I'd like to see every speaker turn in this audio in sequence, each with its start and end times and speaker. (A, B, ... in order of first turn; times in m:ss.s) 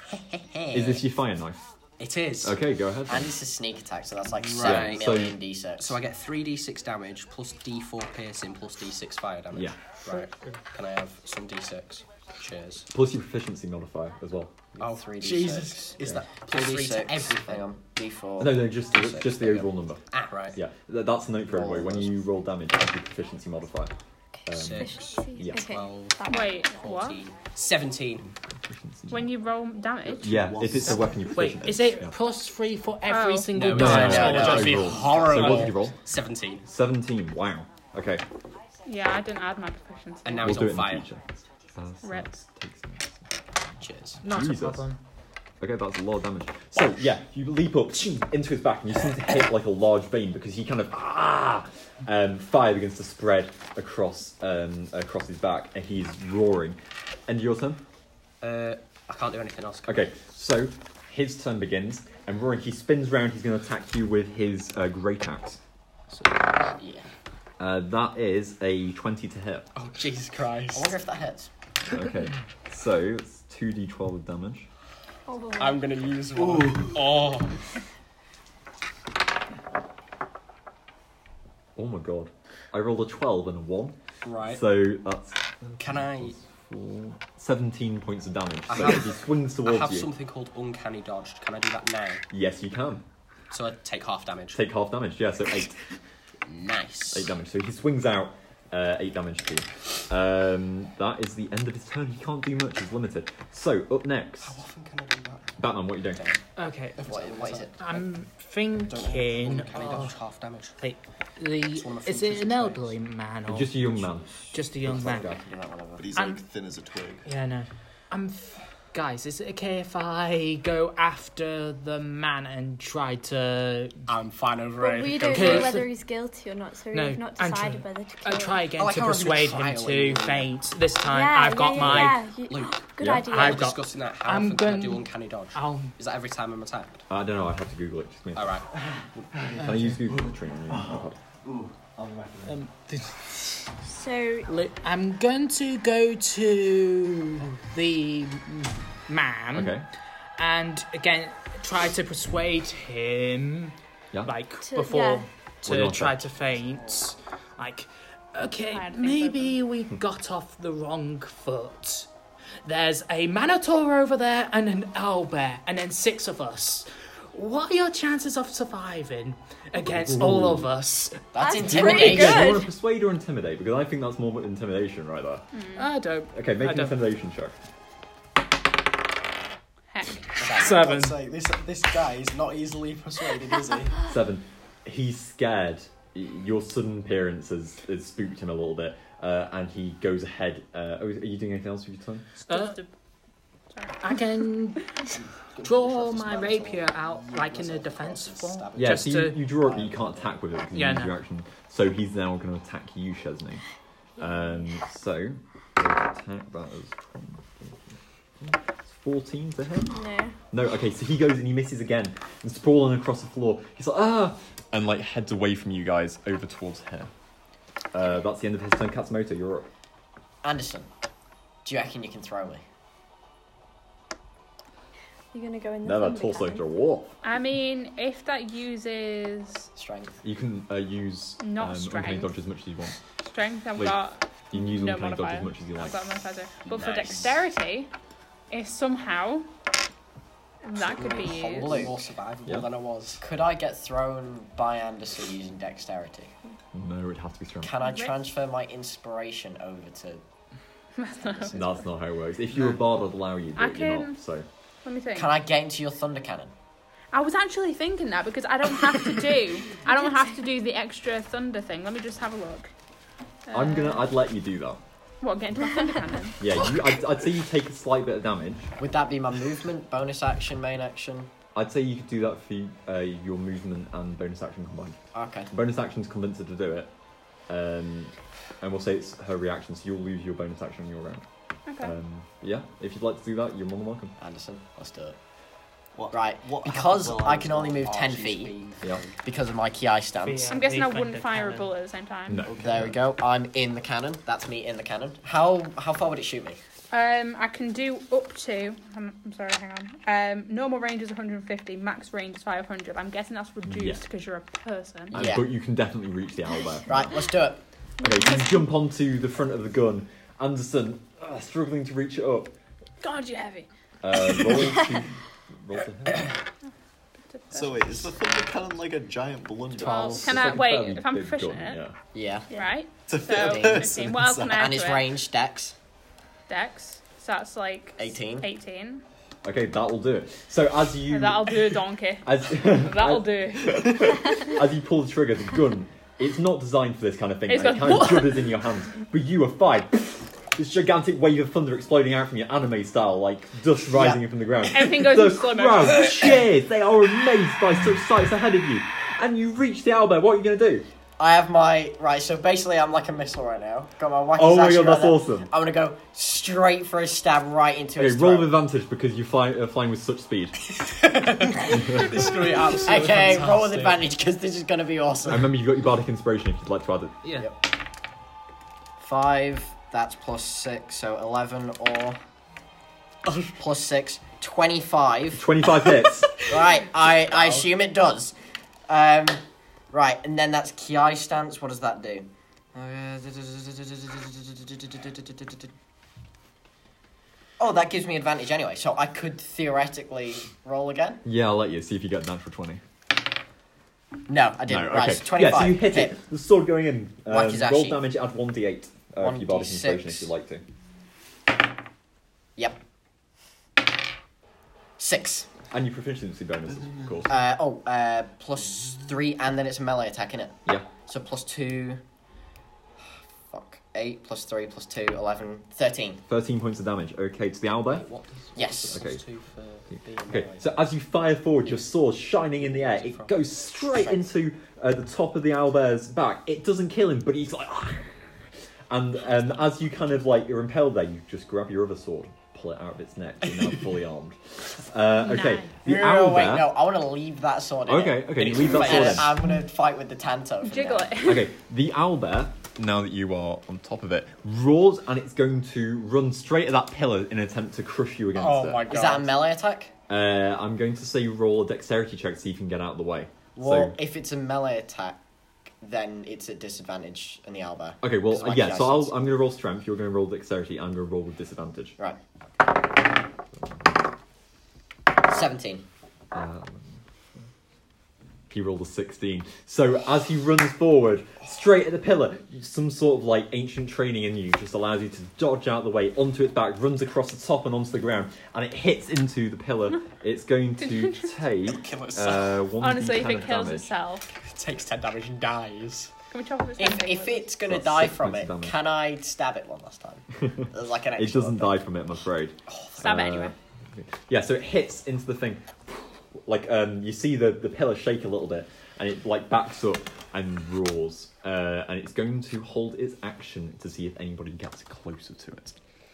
0:00.3-0:01.0 A
0:00.7-0:01.0 B
0:00.7-0:01.6 C
0:02.0-0:02.6 A
0:02.4-0:03.4 C
0:03.1-0:06.0 B
0:04.4-0:12.9 A
0:04.6-0:05.4 C
0:09.5-0:09.8 C
0:10.1-0:10.5 D
0:12.9-0:14.5 C
0:14.7-0:18.8 B
0:14.8-0:17.7 A
0:18.4-0:23.9 C
0:18.9-0:20.6 A
0:21.5-0:22.2 B
0:24.3-0:26.7 E
0:24.4-0:25.7 C
0:24.5-0:28.3 A
0:26.3-0:27.2 F
0:28.4-0:29.3 C
0:29.1-0:30.5 F
0:30.1-0:31.3 G
0:30.2-0:32.2 C
0:30.7-0:34.8 D
0:33.1-0:33.5 F
0:33.5-0:36.7 A
0:33.7-0:36.0 C
0:34.0-0:35.6 B
0:36.6-0:38.2 C
0:38.8-0:40.7 F
0:40.2-0:41.1 A
0:40.4-0:43.2 C
0:42.0-0:42.3 F
0:43.8-0:44.2 A
0:44.2-0:45.0 D
0:44.2-0:44.9 C
0:45.6-0:57.8 C
0:58.4-1:00.1 A
0:59.8-1:05.6 C
1:06.1-1:07.0 A
1:07.6-1:09.7 C
1:09.7-1:11.0 A
1:10.7-1:11.5 B
1:11.9-1:14.7 C
1:15.3-1:16.0 E
1:15.6-1:17.6 A
1:21.8-1:30.1 C
1:24.2-1:24.6 A
1:25.8-1:26.4 A
1:28.7-1:32.2 A
1:32.3-1:33.0 C
1:33.5-1:34.6 A
1:34.5-1:35.8 C
1:36.4-1:37.3 A
1:37.1-1:44.6 C
1:44.4-1:46.4 A
1:45.6-1:46.2 C
1:46.6-1:47.0 D
1:47.0-1:48.0 A
1:47.0-1:48.0 B
1:47.8-1:50.2 D
1:48.8-1:50.8 A
1:50.8-1:53.8 D
1:51.7-1:52.9 A
1:53.5-1:54.4 C
1:54.4-1:56.0 B
1:54.5-1:55.3 D
1:56.0-1:57.3 G
1:56.2-1:56.4 D
1:57.2-2:04.0 D
2:04.1-2:05.8 A
2:04.8-2:08.6 E
2:05.3-2:05.9 D
2:06.9-2:12.2 D
2:08.8-2:10.4 A
2:09.2-2:10.2 B
2:11.0-2:13.6 E
2:11.7-2:17.0 A
2:13.0-2:13.3 C
2:13.2-2:15.9 D
2:17.1-2:18.6 C
2:18.3-2:18.7 A
2:19.3-2:22.6 G
2:19.6-2:21.2 C
2:22.4-2:23.7 D
2:23.8-2:24.5 E
2:24.4-2:29.8 D
2:29.5-2:29.9 C
2:30.4-2:42.1 D
2:34.6-2:35.2 E
2:35.6-2:36.3 C
2:38.7-2:39.6 F
2:42.6-2:51.2 D
2:49.8-2:50.7 C
2:51.3-2:52.5 B
2:51.4-2:52.7 E
2:51.6-2:55.4 C
2:55.5-2:55.9 F
2:55.8-2:57.0 D
2:56.3-2:57.5 C
2:59.9-3:00.4 F
3:00.4-3:04.0 A
3:00.4-3:01.2 D
3:04.1-3:12.3 C
3:12.4-3:12.9 F
3:12.5-3:12.8 D
3:13.7-3:14.0 F
3:14.0-3:15.1 D
3:15.1-3:20.3 A
3:15.6-3:19.4 D
3:18.8-3:23.6 C
3:20.7-3:21.2 D
3:24.2-3:30.0 C
3:29.9-3:30.3 E
3:30.5-3:37.1 C
3:37.9-3:39.7 C
3:40.4-3:40.9 B
3:41.6-3:42.6 B
3:45.3-3:46.6 E
3:45.8-3:47.2 C
3:47.2-3:49.7 F
3:49.8-3:50.2 B
3:50.2-3:53.0 C
3:51.4-3:52.3 F
3:53.2-3:57.9 F
3:54.5-3:56.0 C
3:56.6-3:57.4 A
3:58.5-3:59.5 F
4:00.6-4:01.9 F
4:00.7-4:03.2 A
4:01.5-4:01.9 B
4:03.2-4:06.3 B
4:06.7-4:07.7 C
4:07.6-4:10.2 B
4:07.8-4:08.2 F
4:11.0-4:11.8 F
4:11.2-4:11.5 B
4:11.5-4:14.4 C
4:13.6-4:14.2 F
4:14.8-4:15.3 F
4:15.1-4:16.5 B
4:17.1-4:22.7 F
4:23.5-4:24.1 F
4:23.5-4:24.8 C
4:25.2-4:26.4 F
4:26.4-4:28.7 C
4:28.8-4:31.3 B
4:31.5-4:35.0 C
4:35.1-4:35.5 B
4:35.5-4:36.9 C
4:37.5-4:41.2 C
4:41.7-4:41.9 F
4:41.8-4:44.1 C
4:44.2-4:45.2 B
4:45.9-4:47.8 G
4:46.1-4:48.6 B
4:47.7-4:49.2 A
4:49.2-4:50.5 B
4:50.2-4:51.7 D
4:50.5-4:52.5 F
4:52.3-4:52.9 C
4:52.4-4:52.9 G
4:52.5-4:56.6 B
4:56.9-5:05.2 F
5:03.6-5:04.0 C
5:05.1-5:05.5 B
5:05.1-5:07.3 C
5:06.9-5:07.6 B
5:08.0-5:12.5 C
5:08.0-5:08.6 E
5:13.0-5:13.7 F
5:14.0-5:16.3 C
5:17.2-5:18.0 F
5:17.5-5:20.6 G
5:19.8-5:21.8 F
5:19.8-5:21.9 C
5:22.1-5:22.5 B
5:22.5-5:25.1 F
5:23.1-5:24.6 G
5:23.3-5:25.7 B
5:26.5-5:29.0 F
5:28.0-5:28.5 B
5:29.4-5:50.9 C
5:31.1-5:34.3 F
5:37.5-5:38.5 F
5:43.9-5:44.2 B
5:44.6-5:46.4 F
5:51.2-5:58.5 B
5:54.4-5:55.5 C
5:58.0-6:00.6 C
6:00.8-6:04.0 A
6:02.7-6:05.5 B
6:05.3-6:07.2 C
6:09.0-6:12.2 B
6:13.6-6:15.6 B
6:15.3-6:16.3 C
6:16.4-6:18.3 B
6:17.2-6:17.7 A
6:18.9-6:25.7 B
6:27.6-6:31.2 B
6:31.2-6:32.8 C
6:34.3-6:36.2 B
6:34.7-6:40.6 C
6:37.3-6:38.0 B
6:39.2-6:40.3 B
6:45.0-6:45.5 B
6:45.7-6:47.4 C
6:47.3-6:52.0 B
6:53.5-6:56.2 B
6:56.3-6:58.1 C
6:57.8-7:00.9 A
6:58.6-6:59.0 B
6:58.9-6:59.2 C
7:00.3-7:08.2 C
7:02.4-7:03.4 A
7:03.9-7:04.3 B
7:08.9-7:16.7 C
7:15.2-7:15.7 F
7:15.8-7:21.2 B
7:17.8-7:19.4 C
7:18.4-7:19.3 A
7:20.6-7:21.5 F
7:21.2-7:28.9 C
7:28.3-7:29.4 A
7:28.8-7:29.9 B
7:30.1-7:34.0 C
7:33.6-7:35.2 B
7:35.8-7:39.2 B
7:38.0-7:42.0 C
7:45.2-7:45.8 B
7:46.3-7:47.0 C
7:48.5-8:03.9 C
8:00.8-8:01.3 F
8:01.6-8:02.7 A
8:02.8-8:04.3 F
8:04.4-8:06.1 A
8:06.3-8:07.5 F
8:06.8-8:11.8 B
8:07.7-8:08.8 C
8:11.2-8:25.8 C
8:12.7-8:13.0 B
8:13.0-8:13.5 F